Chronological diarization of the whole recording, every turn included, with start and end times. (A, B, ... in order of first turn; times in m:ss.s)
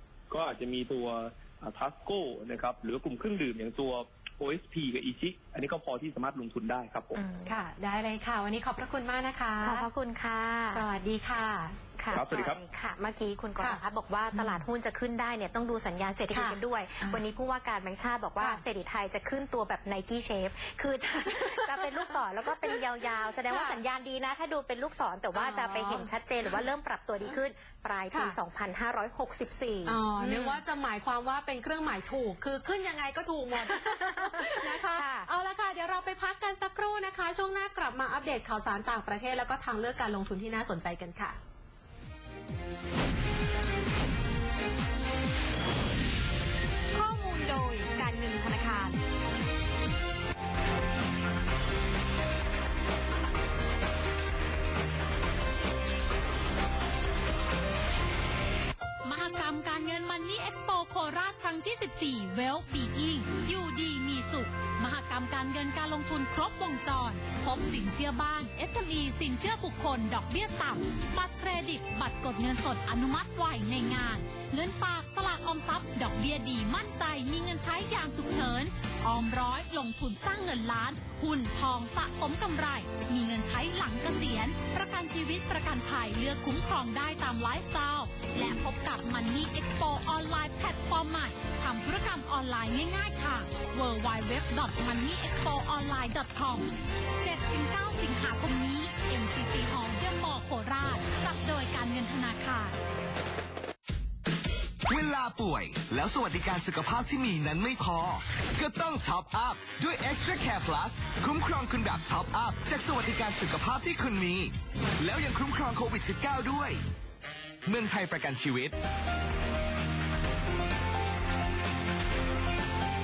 0:00.3-0:07.2 A
0:07.1-0:07.5 B
0:07.4-0:09.9 C
0:09.6-0:10.8 B
0:10.7-0:11.8 C
0:12.0-0:30.6 B
0:12.1-0:12.6 A
0:14.3-0:14.6 C
0:16.3-0:17.2 C
0:21.3-0:22.8 C
0:23.5-0:23.8 C
0:25.3-0:26.1 C
0:28.1-0:28.4 C
0:29.8-0:41.4 C
0:33.5-0:35.3 B
0:46.9-0:48.9 B
0:59.0-1:36.6 D
1:37.2-1:42.7 D
1:44.9-1:56.8 E
1:57.6-1:58.8 E